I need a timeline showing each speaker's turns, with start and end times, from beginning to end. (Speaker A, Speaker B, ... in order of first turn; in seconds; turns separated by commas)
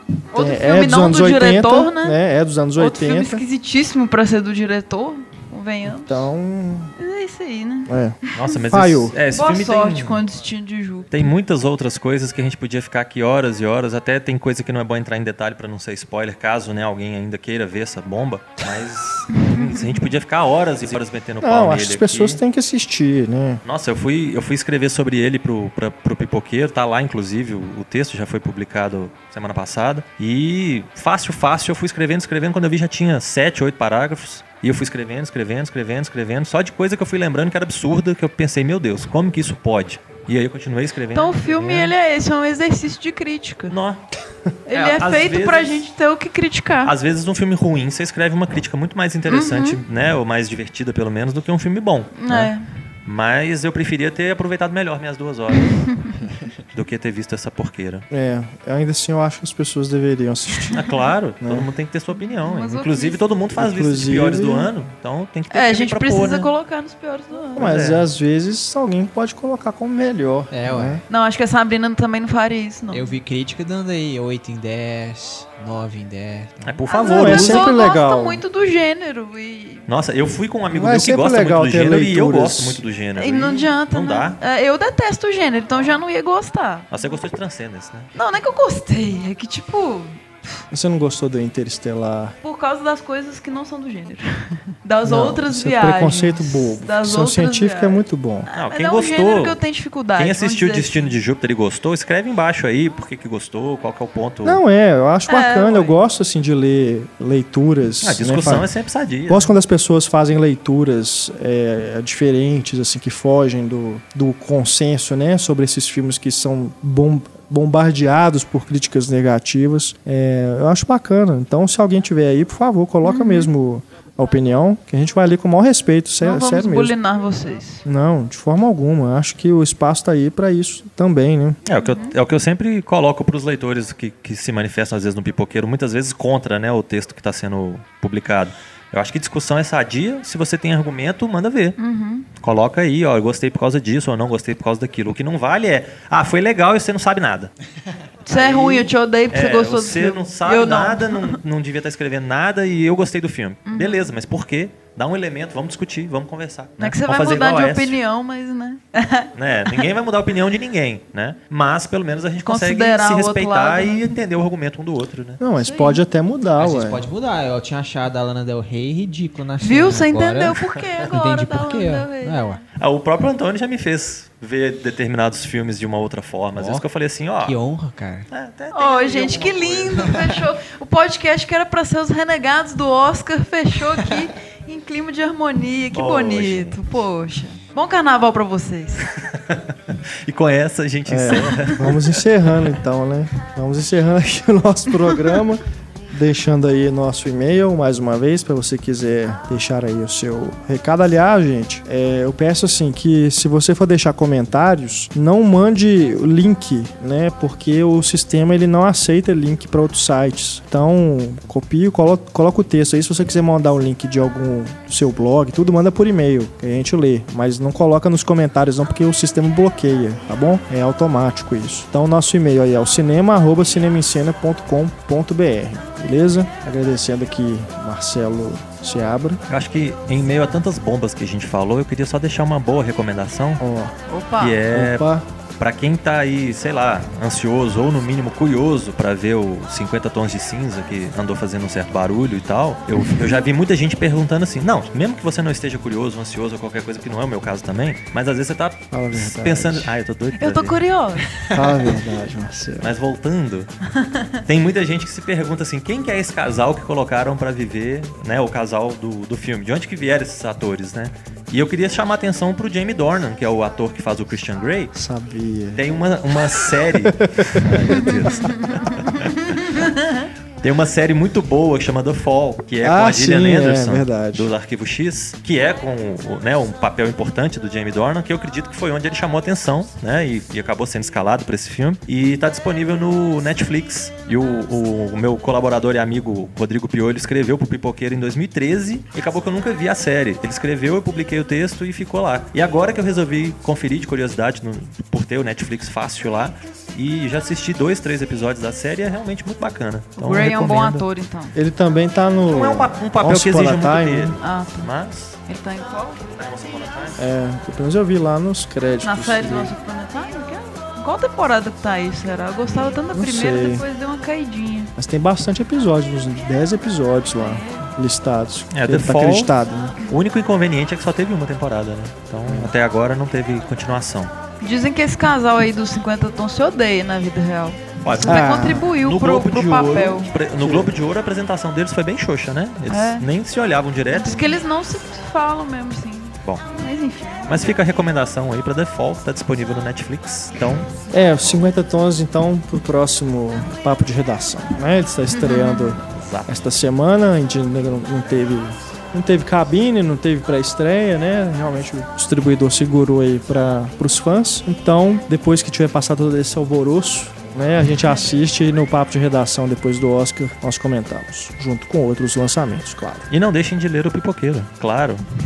Speaker A: 0.3-2.2, Speaker B: 0.3-3.4, Speaker A: 2.8-6.2, Speaker B: 5.8-6.9, Speaker A: 7.0-8.6, Speaker B: 7.9-8.2, Speaker C: 8.3-10.2, Speaker B: 8.7-9.2, Speaker A: 9.3-11.3, Speaker C: 11.1-22.4, Speaker A: 19.4-20.0, Speaker B: 21.4-23.6, Speaker C: 23.6-41.9, Speaker A: 41.1-43.8, Speaker C: 43.7-44.0, Speaker A: 44.7-46.9, Speaker C: 44.7-45.9, Speaker C: 46.8-52.5, Speaker A: 49.3-49.8, Speaker A: 52.2-52.6, Speaker C: 53.0-56.1, Speaker C: 56.7-58.1, Speaker B: 58.1-60.8, Speaker C: 60.7-66.5, Speaker B: 61.4-61.7, Speaker A: 62.2-63.2, Speaker B: 63.5-64.7, Speaker A: 65.5-67.7, Speaker C: 67.6-68.0, Speaker B: 67.6-71.0, Speaker D: 70.5-71.0, Speaker A: 71.1-73.1, Speaker D: 72.9-76.8, Speaker C: 76.7-77.7, Speaker A: 76.9-79.8, Speaker B: 77.0-78.4, Speaker C: 79.9-84.4, Speaker B: 80.7-82.8, Speaker A: 83.2-86.9, Speaker C: 86.9-88.1, Speaker A: 88.2-90.6, Speaker B: 90.7-92.3, Speaker A: 92.4-101.1, Speaker B: 95.0-98.5, Speaker C: 98.5-99.6, Speaker C: 100.2-104.6, Speaker B: 104.4-108.7, Speaker A: 105.3-105.9, Speaker C: 108.0-109.5, Speaker B: 109.3-127.0, Speaker A: 123.0-123.5, Speaker A: 126.2-127.8, Speaker B: 127.8-131.6, Speaker C: 131.7-141.8, Speaker A: 131.8-132.1, Speaker A: 141.8-142.3, Speaker C: 142.4-147.5, Speaker A: 148.2-151.4, Speaker C: 148.3-158.0, Speaker A: 153.7-154.1, Speaker A: 156.8-159.9, Speaker C: 159.3-165.4, Speaker A: 162.4-164.1, Speaker B: 165.4-167.1, Speaker A: 165.6-166.0, Speaker D: 166.6-172.6, Speaker A: 169.6-172.5, Speaker C: 170.5-171.1, Speaker C: 172.8-177.6, Speaker D: 176.6-176.8, Speaker D: 177.4-178.3, Speaker C: 178.3-180.4, Speaker A: 178.7-189.1, Speaker C: 185.9-186.8, Speaker C: 189.3-192.7, Speaker B: 191.1-229.4, Speaker C: 229.5-233.6, Speaker B: 233.6-233.9, Speaker A: 234.1-234.6, Speaker C: 234.4-235.1, Speaker B: 234.7-235.2, Speaker C: 235.6-250.8, Speaker B: 248.9-249.9, Speaker A: 250.4-251.6, Speaker B: 251.5-252.9, Speaker C: 252.8-253.7, Speaker C: 254.4-264.9, Speaker B: 264.9-268.5, Speaker C: 265.8-269.8, Speaker A: 268.3-270.3, Speaker C: 270.6-301.0, Speaker B: 272.8-274.5, Speaker A: 300.2-301.6, Speaker B: 301.5-304.4, Speaker C: 302.5-305.4, Speaker A: 304.4-304.9, Speaker A: 305.4-306.2, Speaker C: 306.3-307.2, Speaker B: 307.2-309.7, Speaker A: 309.0-314.9, Speaker C: 312.6-313.0, Speaker B: 313.1-313.8, Speaker B: 315.0-320.0, Speaker A: 317.4-317.8, Speaker C: 318.7-319.5, Speaker C: 320.0-324.3, Speaker B: 322.4-322.7, Speaker A: 324.6-330.3, Speaker C: 328.0-334.6, Speaker B: 328.2-328.9, Speaker B: 330.6-330.9, Speaker A: 332.9-333.2, Speaker A: 334.1-337.7, Speaker C: 337.5-340.9, Speaker B: 341.1-363.3, Speaker A: 345.3-346.0, Speaker C: 346.1-346.5, Speaker C: 363.3-365.2